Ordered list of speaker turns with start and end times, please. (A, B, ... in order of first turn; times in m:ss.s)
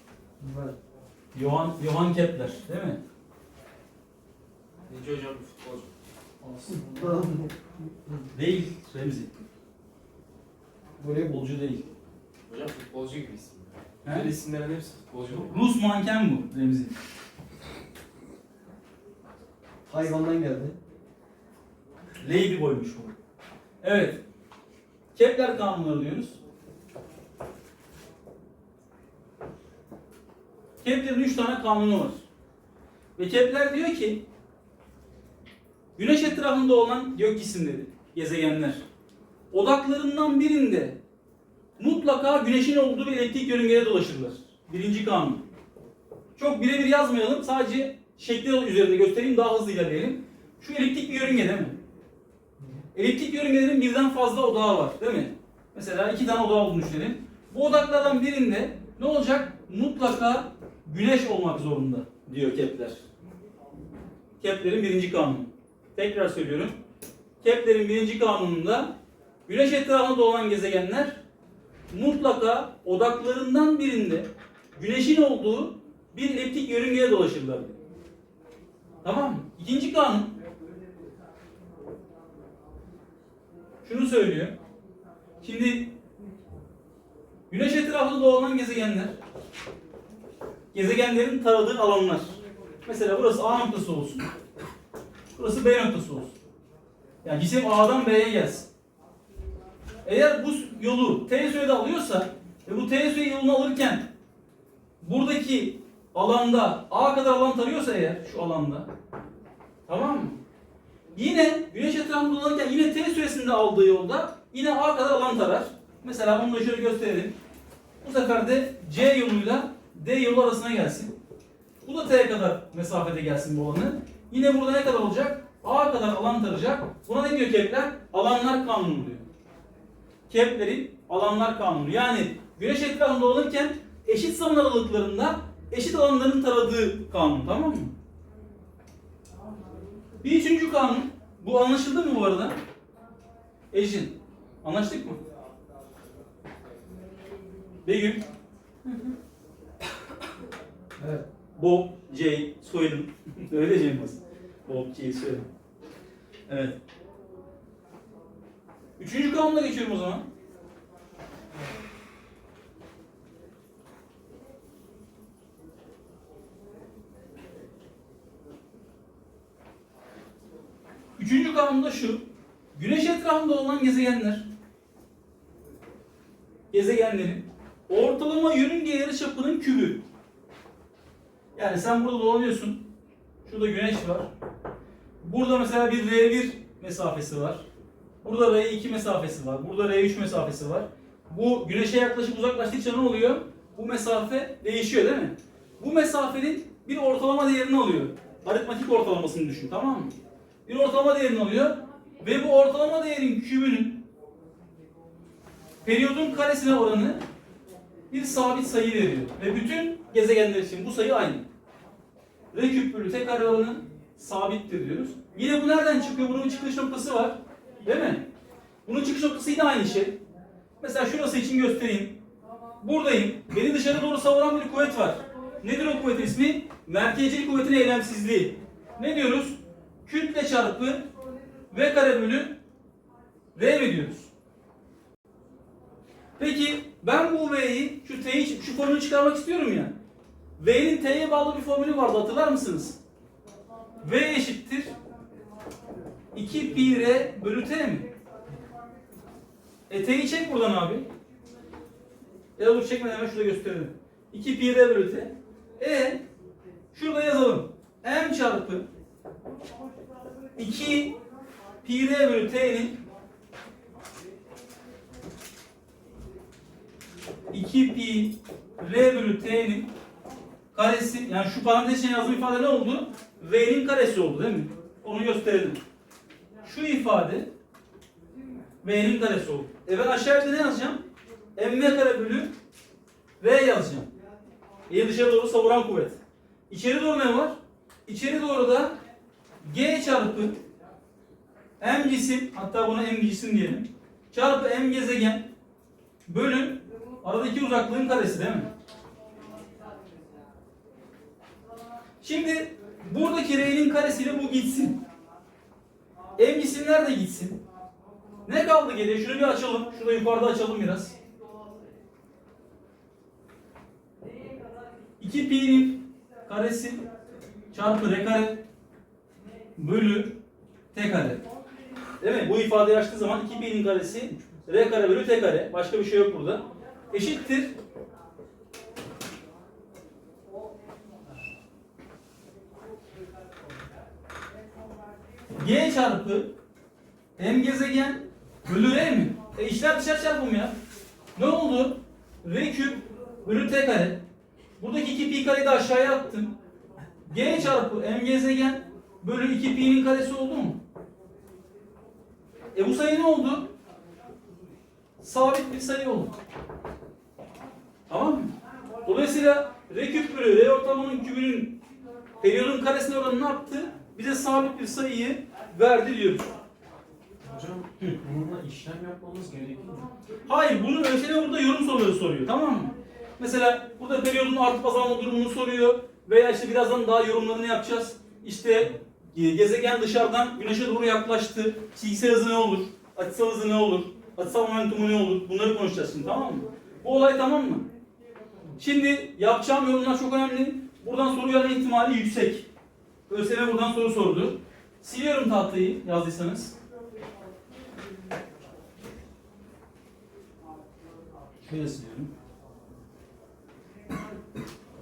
0:00.4-0:00.8 A
0:01.3-0:03.0 B
0:04.9-0:07.3 C
0:06.8-0:07.5 A
0:08.3-0:09.3 B
0:11.0-0:11.4 A
0:11.2-0:11.8 B
0:12.5-0:15.5 C
0:14.0-0:14.3 B
0:15.5-0:16.9 B
0:19.8-0:20.8 A
0:22.2-0:23.1 B
0:23.8-0:24.2 B
0:25.1-0:26.4 B
0:30.8-0:32.2 B
0:33.2-0:34.2 B
0:36.0-0:38.8 B
0:39.5-0:41.0 B
0:41.8-0:45.4 B
0:46.3-0:51.8 B
0:52.9-1:03.0 B
1:04.4-1:06.8 B
1:07.4-1:08.9 B
1:09.5-1:11.2 B
1:11.9-1:17.8 B
1:19.0-1:20.3 B
1:23.8-1:24.6 B
1:25.4-1:25.9 B
1:27.5-1:29.1 B
1:30.7-1:34.3 B
1:35.3-1:36.3 B
1:37.2-1:38.7 B
1:40.0-1:44.1 B
1:45.0-1:48.9 B
1:49.9-1:50.4 B
1:51.1-1:57.4 B
1:58.0-2:01.1 B
2:01.8-2:09.2 B
2:10.3-2:17.9 B
2:20.2-2:22.6 B
2:23.7-2:25.2 B
2:27.8-2:28.2 B
2:31.0-2:31.2 A
2:31.6-2:35.4 B
2:36.5-2:36.8 B
2:39.0-2:40.2 B
2:51.2-2:54.5 B
2:56.7-3:00.0 B
3:01.6-3:02.8 B
3:03.4-3:04.3 B
3:05.2-3:07.6 B
3:08.2-3:20.1 B
3:20.6-3:24.0 B
3:25.8-3:27.2 B
3:28.1-3:31.4 B
3:32.5-3:38.2 B
3:38.8-3:40.2 B
3:40.8-3:42.2 B
3:42.8-3:51.0 B
3:51.7-3:52.5 B
3:53.5-3:54.3 B
3:56.4-3:59.9 B
4:00.6-4:03.0 B
4:04.0-4:04.9 B
4:06.3-4:08.1 B
4:09.9-4:11.1 B
4:12.6-4:16.2 B
4:16.9-4:18.8 B
4:20.6-4:21.1 B
4:21.8-4:23.0 B
4:27.5-4:29.9 B
4:30.7-4:35.8 B
4:36.6-4:37.5 B
4:38.8-4:41.0 B
4:41.6-4:42.5 B
4:43.4-4:44.1 B
4:44.9-4:47.5 B
4:48.0-4:48.9 B
4:49.6-4:50.6 B
4:51.8-4:55.5 B
4:56.2-4:58.7 B
5:02.2-5:05.0 B
5:06.4-5:07.6 B
5:08.4-5:11.1 B
5:15.2-5:17.0 B
5:17.7-5:18.6 B
5:19.8-5:20.4 B
5:20.9-5:21.4 B
5:22.2-5:27.7 B
5:35.6-5:36.5 B
5:37.4-5:40.7 B
5:41.3-5:44.2 B
5:44.8-5:46.5 B
5:47.2-5:50.8 B
5:52.7-5:53.7 B
5:55.2-5:56.3 B
5:58.1-5:58.5 B
5:59.0-6:01.8 B
6:02.4-6:06.5 B
6:07.4-6:10.1 C
6:10.4-6:27.8 B
6:28.8-6:32.7 B
6:33.3-6:36.7 B
6:41.6-6:42.3 B